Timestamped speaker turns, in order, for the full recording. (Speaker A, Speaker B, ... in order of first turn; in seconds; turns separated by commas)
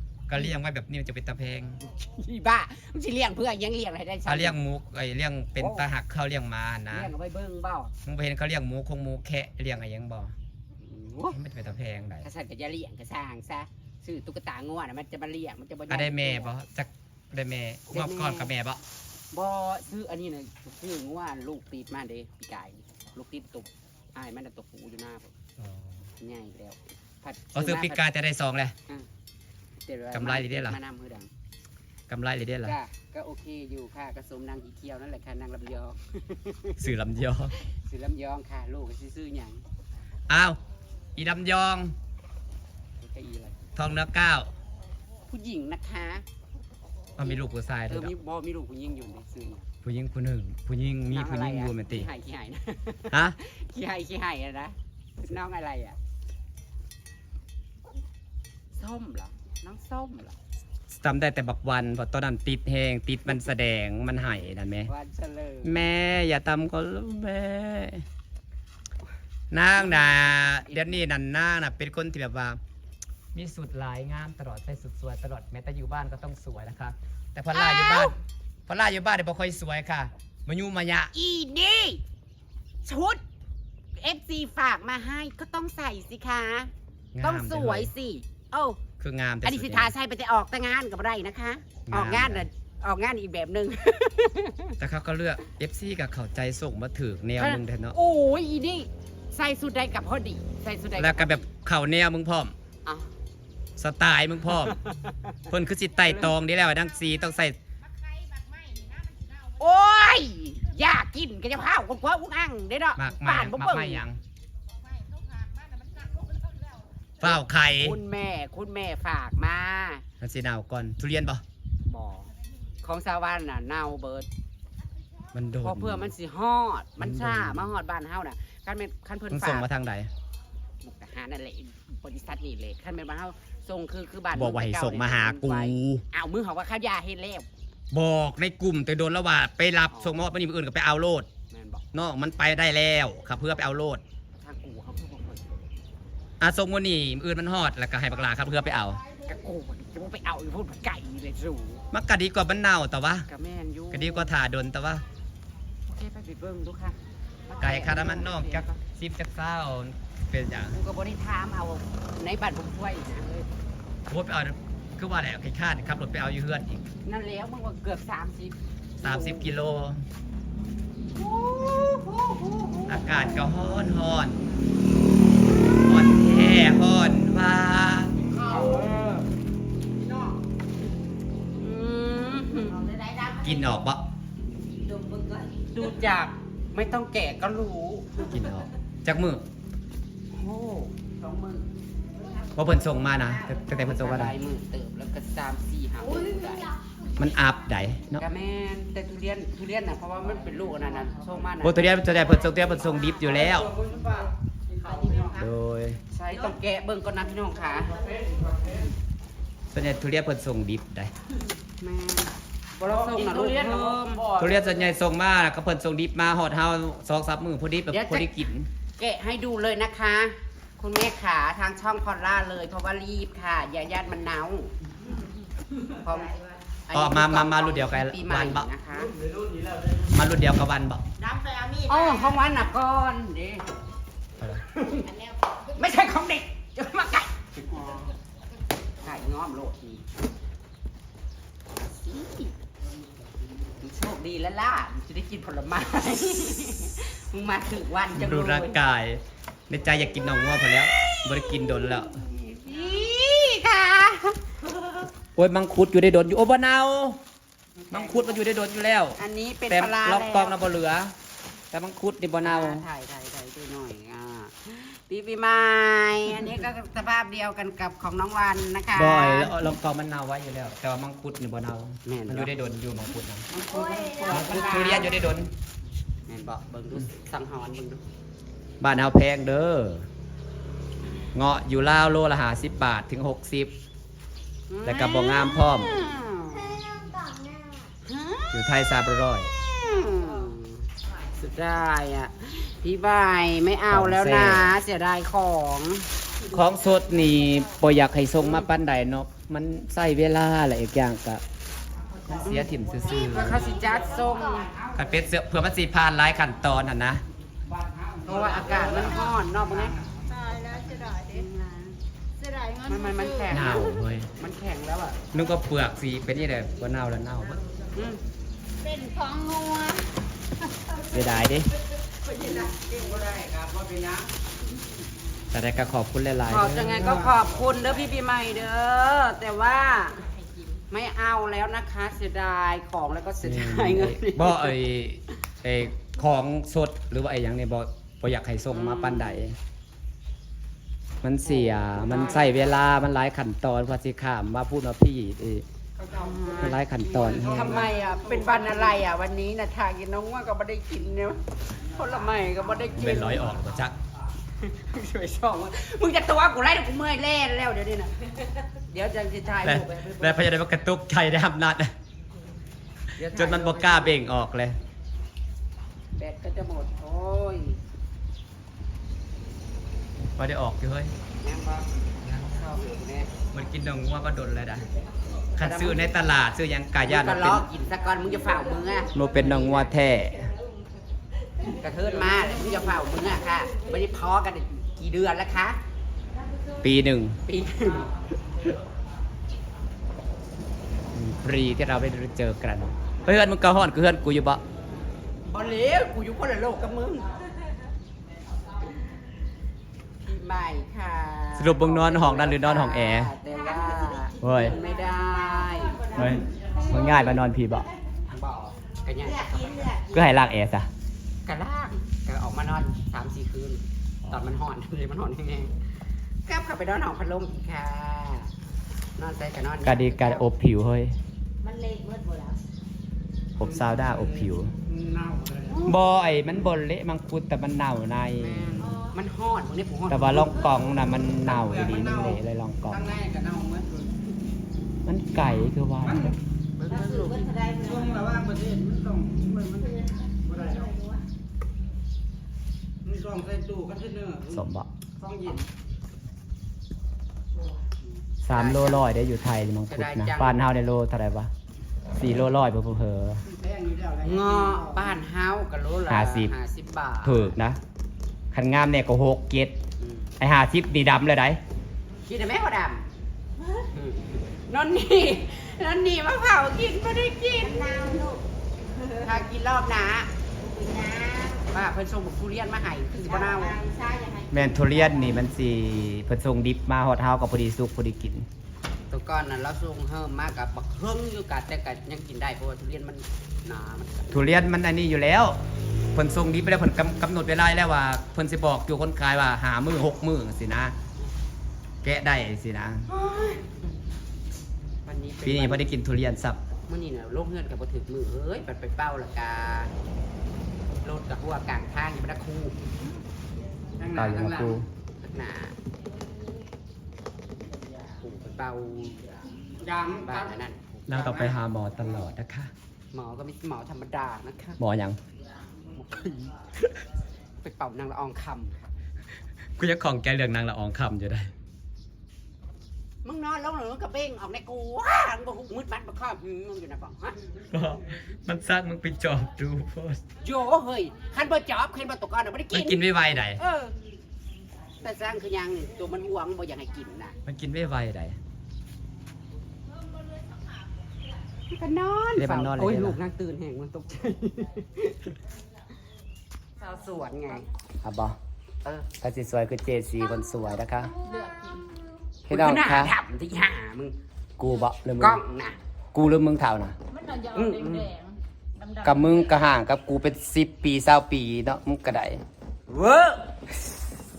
Speaker A: 0.3-1.8, Speaker B: 1.9-4.6, Speaker A: 4.2-7.1, Speaker B: 5.5-5.9, Speaker B: 6.9-7.9, Speaker A: 8.0-10.3, Speaker B: 10.8-11.4, Speaker A: 11.3-12.3, Speaker B: 12.2-16.5, Speaker A: 15.9-18.8, Speaker B: 17.9-18.5, Speaker B: 19.3-25.3, Speaker B: 26.2-28.0, Speaker A: 27.5-28.7, Speaker B: 29.9-31.3, Speaker A: 30.1-30.8, Speaker A: 32.1-32.8, Speaker B: 32.6-36.8, Speaker A: 36.8-37.5, Speaker B: 37.6-39.6, Speaker A: 40.3-40.6, Speaker A: 41.1-41.9, Speaker B: 43.0-43.6, Speaker A: 43.8-44.5, Speaker B: 45.3-46.2, Speaker A: 47.2-48.1, Speaker B: 47.9-49.7, Speaker A: 49.8-52.1, Speaker B: 51.1-56.0, Speaker A: 53.1-53.4, Speaker B: 58.7-60.3, Speaker A: 60.9-64.9, Speaker B: 64.9-65.8, Speaker A: 65.6-68.0, Speaker A: 69.5-72.6, Speaker B: 69.8-71.0, Speaker A: 73.3-78.1, Speaker B: 77.5-78.2, Speaker A: 78.7-81.1, Speaker B: 81.1-82.0, Speaker B: 82.8-83.2, Speaker B: 84.0-86.7, Speaker A: 87.1-87.9, Speaker B: 87.2-88.8, Speaker A: 89.0-89.9, Speaker B: 89.4-94.8, Speaker A: 91.8-92.5, Speaker A: 94.8-98.0, Speaker B: 97.4-101.5, Speaker A: 101.0-102.5, Speaker B: 102.8-103.1, Speaker A: 103.8-104.8, Speaker B: 104.7-105.4, Speaker A: 105.5-107.6, Speaker B: 106.0-106.3, Speaker C: 108.1-109.2, Speaker B: 109.5-114.0, Speaker A: 113.0-114.2, Speaker C: 115.3-116.7, Speaker A: 117.2-118.0, Speaker B: 117.2-120.0, Speaker A: 120.2-121.4, Speaker B: 121.9-122.3, Speaker B: 122.8-124.3, Speaker A: 125.3-126.1, Speaker B: 125.6-129.7, Speaker A: 127.0-127.7, Speaker A: 129.3-130.1, Speaker B: 130.8-137.5, Speaker A: 134.3-136.0, Speaker A: 137.9-141.3, Speaker B: 139.9-140.2, Speaker B: 141.5-141.8, Speaker A: 141.9-144.0, Speaker B: 144.4-145.6, Speaker A: 146.4-149.0, Speaker B: 149.2-151.8, Speaker A: 151.9-153.2, Speaker B: 153.3-154.3, Speaker A: 153.9-155.0, Speaker B: 155.9-158.8, Speaker A: 157.6-160.8, Speaker B: 160.7-163.5, Speaker A: 164.1-166.8, Speaker B: 167.0-169.5, Speaker A: 169.0-170.1, Speaker B: 171.1-173.5, Speaker A: 172.9-174.4, Speaker A: 175.6-178.1, Speaker B: 178.4-178.9, Speaker B: 181.6-182.9, Speaker D: 182.9-183.4, Speaker A: 183.2-184.0, Speaker D: 184.9-185.4, Speaker B: 185.7-188.3, Speaker A: 188.2-189.4, Speaker B: 190.3-191.6, Speaker A: 192.6-194.3, Speaker B: 193.7-196.7, Speaker A: 197.2-198.2, Speaker B: 198.2-202.5, Speaker A: 201.6-203.7, Speaker D: 203.2-205.4, Speaker A: 205.3-206.0, Speaker B: 206.1-208.0, Speaker D: 208.0-208.8, Speaker A: 209.7-211.1, Speaker B: 211.8-214.3, Speaker D: 212.8-214.5, Speaker A: 214.4-218.7, Speaker B: 217.9-218.4, Speaker B: 219.0-224.7, Speaker B: 225.9-226.3, Speaker B: 226.9-229.1, Speaker A: 226.9-228.7, Speaker A: 229.9-231.0, Speaker C: 231.3-231.7, Speaker D: 231.4-231.7, Speaker B: 231.8-233.7, Speaker B: 234.7-235.1, Speaker B: 235.7-238.1, Speaker B: 239.0-240.0, Speaker B: 241.8-242.5, Speaker B: 243.8-248.8, Speaker A: 248.1-252.2, Speaker B: 252.0-254.5, Speaker A: 255.3-257.2, Speaker B: 257.8-258.4, Speaker A: 257.9-259.2, Speaker B: 259.1-260.6, Speaker A: 259.7-261.1, Speaker A: 261.7-262.8, Speaker B: 262.4-269.5, Speaker A: 268.9-273.5, Speaker B: 272.0-272.5, Speaker B: 273.5-275.4, Speaker C: 273.8-274.3, Speaker D: 274.0-274.4, Speaker A: 274.2-275.5, Speaker B: 276.3-278.0, Speaker A: 278.8-280.1, Speaker A: 281.3-283.7, Speaker B: 284.7-286.9, Speaker A: 284.8-286.0, Speaker C: 287.2-287.6, Speaker B: 288.0-288.6, Speaker A: 288.5-289.5, Speaker B: 289.6-296.1, Speaker A: 293.9-294.7, Speaker A: 296.5-301.4, Speaker A: 302.3-303.8, Speaker B: 302.3-305.1, Speaker A: 304.9-307.2, Speaker B: 307.7-310.0, Speaker D: 308.3-308.9, Speaker D: 309.8-310.2, Speaker C: 310.3-311.5, Speaker B: 311.1-312.0, Speaker C: 312.4-313.7, Speaker B: 312.9-315.2, Speaker A: 313.5-314.3, Speaker A: 315.3-317.6, Speaker B: 317.9-318.2, Speaker C: 318.8-320.2, Speaker A: 321.0-321.7, Speaker B: 322.2-324.3, Speaker A: 325.5-327.0, Speaker B: 326.4-330.3, Speaker B: 330.9-334.8, Speaker A: 333.4-339.6, Speaker B: 338.7-339.4, Speaker A: 341.2-345.6, Speaker B: 341.4-342.7, Speaker B: 346.0-353.6, Speaker D: 346.1-346.5, Speaker A: 346.6-347.9, Speaker D: 347.2-348.0, Speaker A: 352.9-353.9, Speaker B: 354.6-360.6, Speaker A: 359.6-361.9, Speaker B: 363.1-364.3, Speaker A: 363.3-364.8, Speaker B: 366.2-367.8, Speaker A: 370.4-371.1, Speaker B: 371.4-371.9, Speaker A: 372.2-372.6, Speaker B: 372.4-373.3, Speaker A: 373.5-374.9, Speaker A: 375.6-377.7, Speaker B: 375.6-376.0, Speaker B: 377.0-379.9, Speaker A: 379.1-380.5, Speaker B: 381.7-385.8, Speaker A: 386.8-387.4, Speaker B: 387.5-388.1, Speaker A: 391.1-394.6, Speaker B: 395.4-397.3, Speaker B: 400.2-406.2, Speaker A: 401.6-403.3, Speaker A: 404.4-404.8, Speaker D: 405.7-406.8, Speaker A: 406.1-407.9, Speaker B: 408.3-410.0, Speaker D: 409.5-410.1, Speaker A: 410.1-410.9, Speaker B: 411.4-415.8, Speaker B: 416.4-418.5, Speaker B: 419.2-420.5, Speaker A: 419.8-421.1, Speaker D: 421.6-422.6, Speaker C: 421.6-422.5, Speaker A: 423.6-424.7, Speaker D: 424.9-425.8, Speaker B: 425.0-426.0, Speaker A: 425.8-428.8, Speaker B: 428.4-430.7, Speaker A: 430.1-433.0, Speaker B: 431.5-432.4, Speaker B: 432.9-434.1, Speaker A: 435.1-436.4, Speaker B: 436.8-437.8, Speaker C: 437.4-438.0, Speaker D: 437.6-441.1, Speaker C: 440.8-441.1, Speaker B: 443.1-444.6, Speaker D: 443.3-443.9, Speaker A: 444.5-444.9, Speaker B: 445.2-445.6, Speaker A: 448.4-451.5, Speaker B: 448.5-449.0, Speaker B: 449.9-450.6, Speaker A: 452.1-453.4, Speaker D: 453.5-454.8, Speaker B: 454.2-457.6, Speaker A: 456.1-456.5, Speaker A: 457.2-457.8, Speaker A: 458.5-459.8, Speaker B: 460.0-460.3, Speaker A: 460.4-461.6, Speaker B: 462.2-463.1, Speaker B: 463.9-468.2, Speaker D: 467.8-468.4, Speaker B: 469.2-470.3, Speaker D: 470.7-471.5, Speaker C: 470.7-471.6, Speaker B: 471.7-473.8, Speaker D: 473.4-474.5, Speaker C: 474.0-474.4, Speaker A: 474.5-478.5, Speaker B: 479.1-484.4, Speaker A: 484.3-485.6, Speaker A: 486.1-490.9, Speaker A: 492.0-493.1, Speaker B: 493.1-493.9, Speaker B: 495.1-495.9, Speaker A: 495.4-496.6, Speaker B: 496.9-499.9, Speaker B: 501.0-502.8, Speaker D: 504.0-504.8, Speaker A: 504.1-504.9, Speaker B: 505.2-505.7, Speaker B: 508.2-509.3, Speaker D: 509.8-510.3, Speaker B: 510.1-511.4, Speaker A: 511.1-512.7, Speaker D: 511.2-511.5, Speaker B: 513.1-514.8, Speaker A: 514.8-515.2, Speaker B: 515.9-516.6, Speaker B: 517.6-518.9, Speaker A: 519.8-521.5, Speaker B: 523.2-527.4, Speaker A: 527.7-530.2, Speaker B: 530.4-533.0, Speaker A: 532.7-533.6, Speaker B: 533.5-533.9, Speaker B: 535.0-537.4, Speaker A: 537.5-538.4, Speaker C: 540.3-540.6, Speaker B: 541.7-545.3, Speaker A: 542.4-543.2, Speaker B: 546.8-547.7, Speaker A: 548.0-548.4, Speaker B: 548.8-549.1, Speaker A: 549.2-551.1, Speaker C: 551.2-551.9, Speaker A: 552.5-553.1, Speaker B: 552.5-554.1, Speaker A: 554.6-555.4, Speaker B: 555.2-555.8, Speaker A: 556.1-557.0, Speaker C: 557.1-559.5, Speaker B: 557.5-558.1, Speaker A: 559.0-562.4, Speaker B: 562.9-563.6